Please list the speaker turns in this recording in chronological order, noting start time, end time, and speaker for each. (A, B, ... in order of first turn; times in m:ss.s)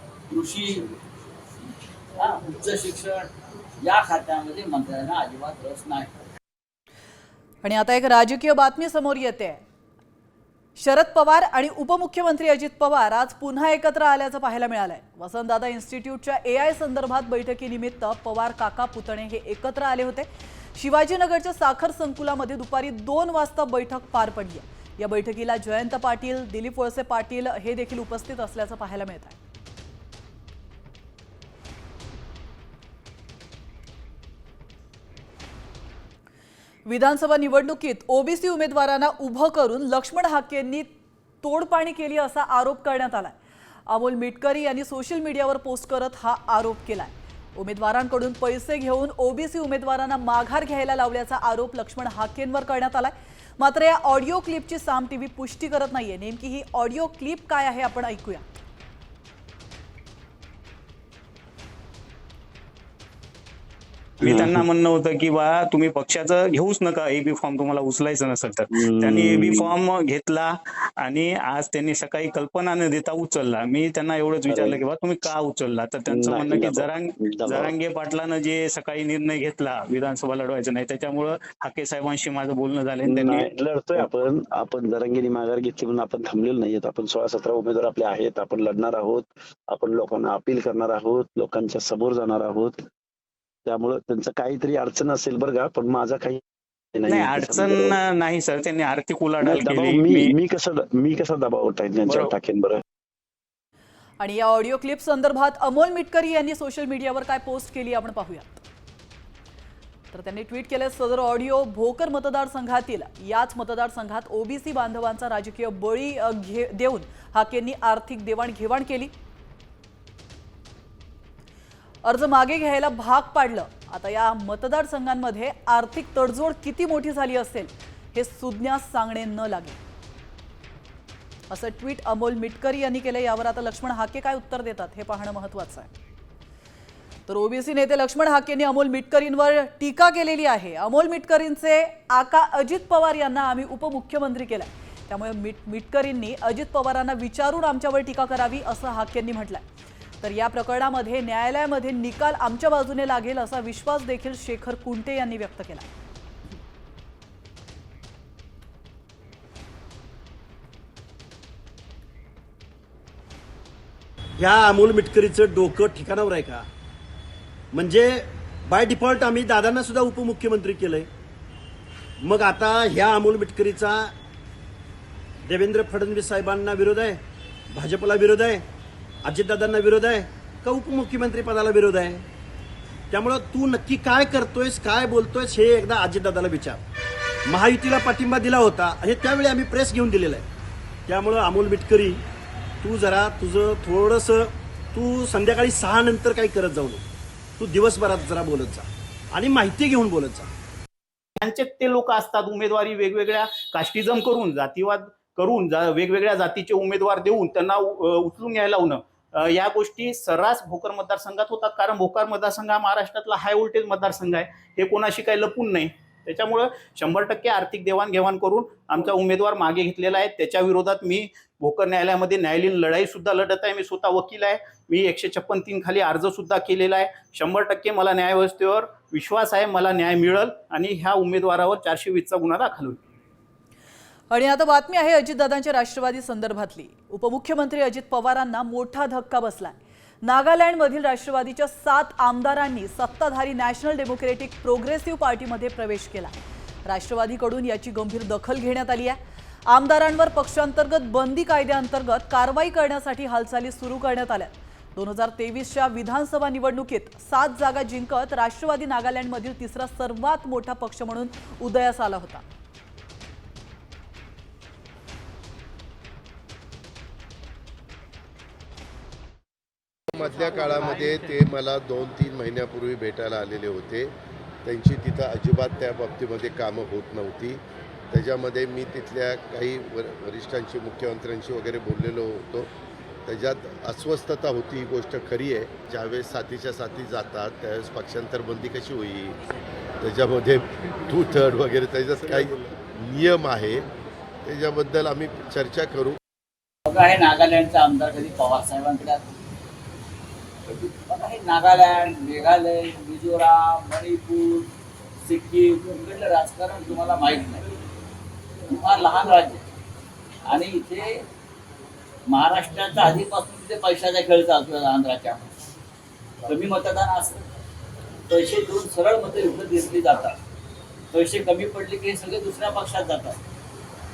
0:00.3-0:00.9 A
0:02.2-0:06.2 A
0:07.6-0:09.6 B
0:10.8-0:29.4 B
0:36.9-0:40.9 B
0:41.4-0:43.4 B
0:43.9-0:58.4 B
1:04.2-1:24.1 C
1:04.2-1:04.7 D
1:08.7-1:09.7 D
1:14.5-1:14.8 D
1:16.1-1:17.8 D
1:23.0-1:32.8 D
1:33.7-1:36.4 D
1:37.0-1:38.0 D
1:37.1-1:40.4 C
1:39.4-1:42.8 D
1:42.1-1:42.3 C
1:44.2-1:48.6 B
1:50.1-1:59.1 B
2:02.0-2:09.8 B
2:11.5-2:15.9 B
2:17.3-2:29.6 B
2:30.2-2:35.9 B
2:44.4-2:46.7 E
2:47.7-2:51.1 E
2:52.2-2:54.1 E
2:55.4-2:58.7 E
2:59.2-3:02.2 E
3:03.1-3:06.8 E
3:07.5-3:10.5 E
3:11.1-3:12.2 E
3:12.8-3:17.0 E
3:17.6-3:20.5 E
3:21.4-3:53.0 F
3:54.3-4:06.3 B
4:06.9-4:09.2 B
4:09.7-4:22.4 B
4:30.1-4:34.1 G
4:34.6-4:42.7 G
4:43.3-4:49.4 G
4:50.0-4:53.9 G
4:54.4-4:56.2 G
4:56.9-4:59.3 A
5:01.0-5:04.7 A
5:05.2-5:07.7 A
5:08.7-5:09.7 A
5:10.5-5:11.2 A
5:12.3-5:15.5 A
5:16.4-5:17.5 A
5:18.3-5:20.4 A
5:21.1-5:23.4 A